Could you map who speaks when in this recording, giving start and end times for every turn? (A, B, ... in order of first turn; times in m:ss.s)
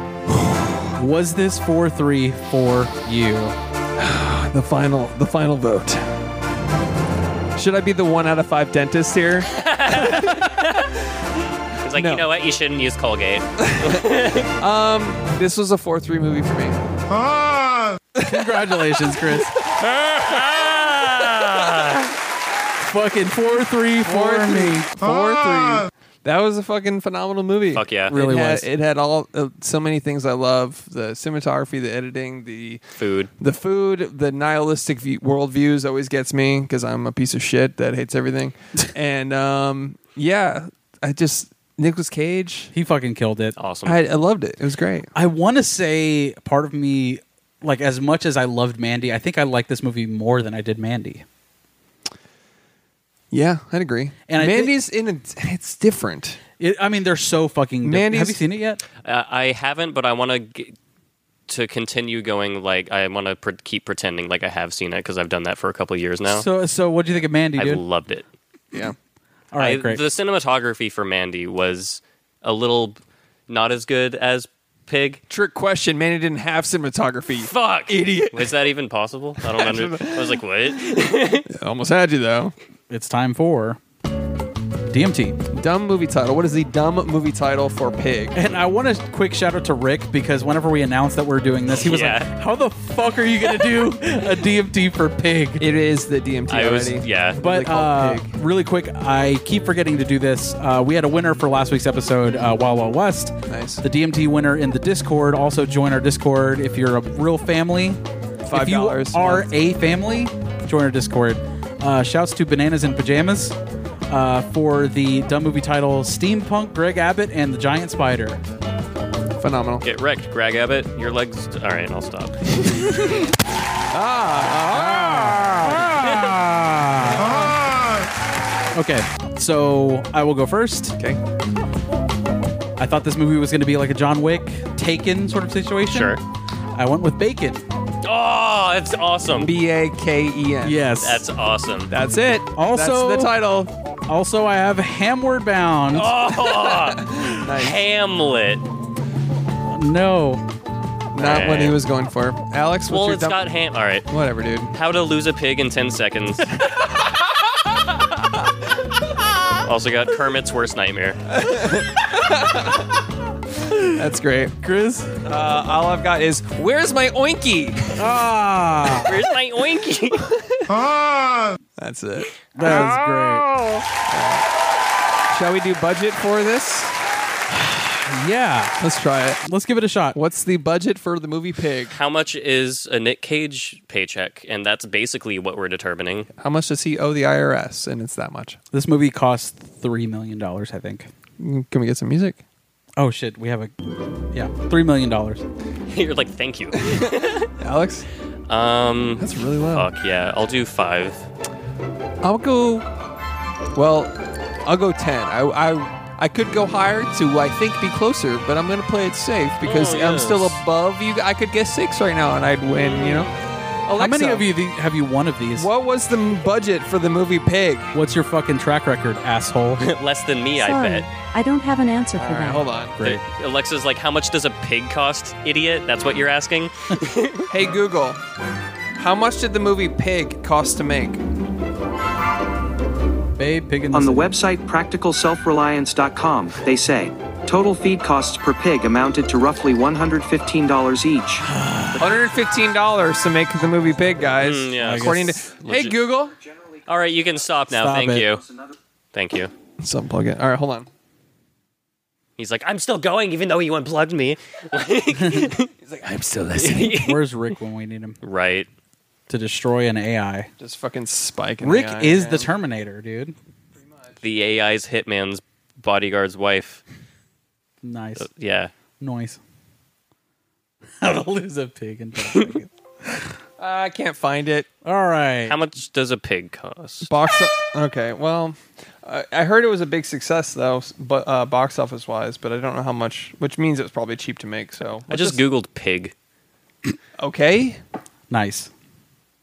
0:00.5-0:00.8 A
0:01.0-0:03.6 B
0:04.0-0:06.1 A
0:07.6-0:10.6 A
0:09.5-0:11.0 C
0:11.8-0:14.5 C
0:11.9-0:12.2 A
0:13.6-0:14.0 A
0:14.6-0:16.8 A
0:18.1-0:21.8 A
0:18.2-0:19.6 B
0:20.2-0:22.1 C
0:22.8-0:24.9 B
0:24.0-0:32.8 A
0:27.7-0:28.1 C
0:28.1-0:28.7 B
0:33.0-0:33.3 C
0:33.4-0:42.7 A
0:42.7-0:43.6 B
0:43.6-0:44.0 C
0:43.8-0:45.1 A
0:45.1-0:51.2 B
0:53.3-0:56.4 A
0:54.3-0:54.7 B
0:56.6-0:58.8 B
0:57.8-0:58.4 A
0:59.0-1:00.7 C
1:01.5-1:06.4 C
1:06.3-1:07.8 B
1:07.6-1:08.2 C
1:09.5-1:10.0 B
1:09.6-1:15.2 C
1:15.3-1:18.5 A
1:17.4-1:21.5 C
1:19.4-1:22.5 A
1:22.9-1:23.8 B
1:24.9-1:25.4 B
1:25.5-1:28.3 A
1:28.3-1:35.6 B
1:31.8-1:32.3 C
1:35.6-1:38.4 A
1:36.5-1:37.4 C
1:37.4-1:48.0 B
1:43.4-1:43.8 A
1:48.4-1:49.5 A
1:48.5-1:53.6 B
1:54.1-1:58.4 B
1:59.4-1:59.8 A
1:59.8-2:02.4 C
2:02.5-2:03.4 A
2:03.9-2:06.3 A
2:04.9-2:07.5 B
2:07.2-2:07.7 A
2:08.7-2:11.0 B
2:12.8-2:16.2 B
2:15.9-2:16.2 C
2:16.8-2:17.6 B
2:18.0-2:19.5 C
2:19.4-2:20.9 A
2:20.6-2:21.2 B
2:21.0-2:21.9 C
2:21.9-2:23.7 A
2:22.5-2:23.3 B
2:24.1-2:26.1 B
2:25.9-2:28.6 C
2:26.3-2:27.8 A
2:29.7-2:30.4 B
2:31.1-2:33.4 A
2:31.2-2:31.8 C
2:32.9-2:34.1 C
2:34.1-2:34.8 A
2:34.7-2:36.6 C
2:36.6-2:38.5 A
2:39.6-2:41.2 C
2:41.3-2:43.0 A
2:43.6-2:44.0 B
2:43.9-2:48.1 A
2:44.6-2:45.1 B
2:48.0-2:49.1 B
2:49.0-2:50.3 C
2:50.1-2:50.9 A
2:51.8-2:54.4 A
2:52.6-2:53.5 B
2:55.3-2:57.0 A
2:57.5-2:58.8 B
2:58.8-2:59.4 A
2:59.4-3:00.2 B
3:00.1-3:02.0 A
3:01.9-3:06.3 C
3:06.4-3:08.6 A
3:08.7-3:11.1 B
3:11.4-3:12.4 A
3:13.0-3:13.7 B
3:14.3-3:15.4 B
3:15.9-3:17.5 C
3:16.7-3:18.0 A
3:18.5-3:21.2 C
3:19.2-3:19.9 A
3:22.2-3:22.9 A
3:23.7-3:33.3 A
3:29.6-3:30.6 C
3:32.8-3:33.3 C
3:33.8-3:34.5 A
3:34.0-3:35.7 B
3:35.6-3:37.9 A
3:37.9-3:39.9 B
3:39.8-3:41.1 C
3:40.6-3:42.7 D
3:42.2-3:43.0 A
3:43.0-3:43.2 B
3:43.0-3:47.5 C
3:47.5-3:48.2 A
3:48.9-3:51.2 A
3:53.4-3:54.4 B
3:53.9-4:01.4 E
4:01.4-4:02.0 B
4:02.0-4:06.4 A
4:04.4-4:06.0 C
4:04.8-4:05.4 B
4:06.9-4:08.4 C
4:07.7-4:08.3 B
4:09.1-4:09.5 C
4:09.8-4:10.9 A
4:12.4-4:15.7 C
4:15.2-4:15.5 B
4:15.8-4:16.9 A
4:16.5-4:17.2 C
4:16.6-4:18.2 B
4:18.2-4:18.7 C
4:19.3-4:20.5 B
4:20.6-4:22.5 A
4:21.6-4:23.3 B
4:24.2-4:26.8 C
4:27.8-4:28.3 B
4:28.2-4:28.7 C
4:29.0-4:29.4 B
4:31.0-4:32.7 B
4:33.6-4:34.7 A
4:34.8-4:35.6 B
4:35.5-4:37.1 C
4:37.0-4:45.4 A
4:45.1-4:46.1 C
4:47.2-4:47.8 A
4:48.3-4:48.7 B